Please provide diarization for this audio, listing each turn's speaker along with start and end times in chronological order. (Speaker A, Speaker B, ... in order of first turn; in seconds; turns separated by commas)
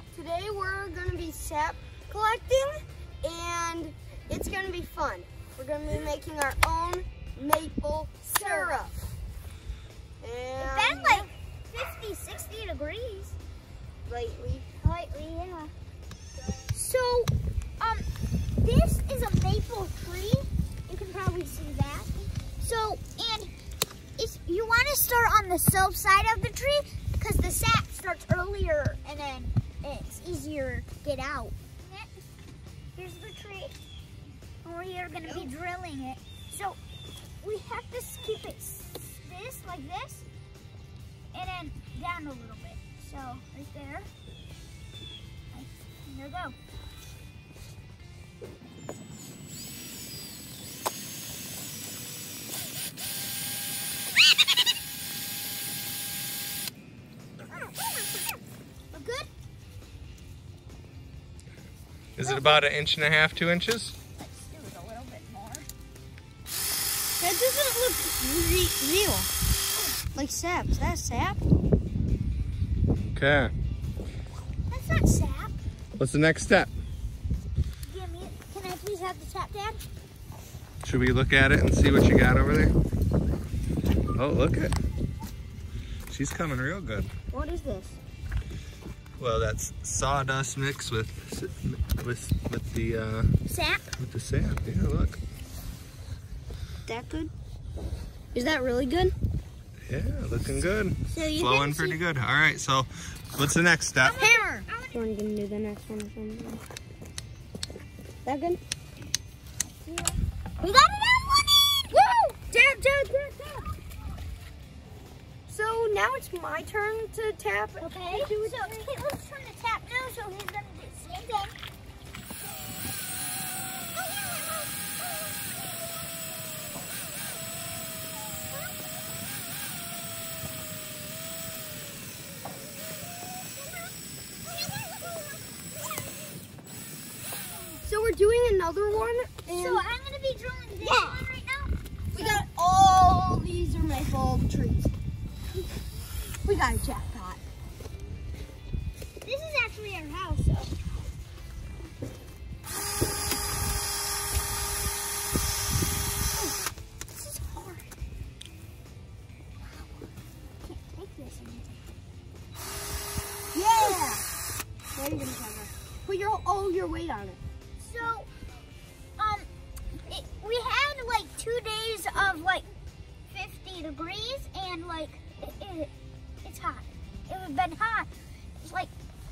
Speaker A: 0.1-8.9, Speaker B: 8.3-8.8, Speaker A: 10.2-11.3, Speaker B: 10.6-13.3, Speaker A: 14.1-14.7, Speaker B: 14.8-15.7, Speaker B: 16.7-18.0, Speaker B: 18.6-23.5, Speaker B: 24.2-32.3, Speaker B: 32.9-33.7, Speaker B: 34.6-36.8, Speaker B: 37.4-40.2, Speaker B: 41.3-44.1, Speaker B: 45.5-46.5, Speaker B: 58.9-59.3, Speaker C: 62.1-63.9, Speaker B: 64.2-65.7, Speaker A: 67.2-69.3, Speaker A: 70.1-71.4, Speaker C: 73.1-73.5, Speaker B: 74.7-75.6, Speaker C: 76.0-76.7, Speaker B: 77.8-79.8, Speaker C: 80.8-82.7, Speaker C: 84.1-84.7, Speaker C: 86.1-87.1, Speaker A: 87.3-88.0, Speaker C: 89.2-93.3, Speaker B: 93.5-93.9, Speaker C: 94.0-95.2, Speaker A: 96.8-97.3, Speaker A: 98.3-99.1, Speaker C: 99.9-104.2, Speaker A: 101.1-102.0, Speaker B: 104.0-105.0, Speaker A: 104.1-106.6, Speaker A: 108.2-108.6, Speaker B: 109.8-110.2, Speaker B: 110.7-111.9, Speaker A: 111.9-113.6, Speaker A: 115.5-118.7, Speaker B: 117.8-121.5, Speaker B: 123.9-125.8, Speaker B: 128.5-128.8, Speaker B: 133.5-133.9, Speaker B: 137.4-137.8, Speaker A: 137.8-139.8, Speaker B: 139.5-141.7, Speaker A: 140.8-141.2, Speaker A: 142.1-144.9, Speaker A: 146.4-147.4, Speaker B: 149.2-150.7, Speaker B: 157.1-157.8, Speaker B: 159.6-159.9, Speaker B: 160.6-161.9, Speaker A: 163.5-164.2, Speaker A: 164.9-167.4, Speaker B: 167.8-168.3, Speaker B: 169.2-169.5, Speaker B: 170.1-172.7, Speaker B: 173.3-175.9, Speaker B: 176.4-178.1, Speaker B: 178.6-178.9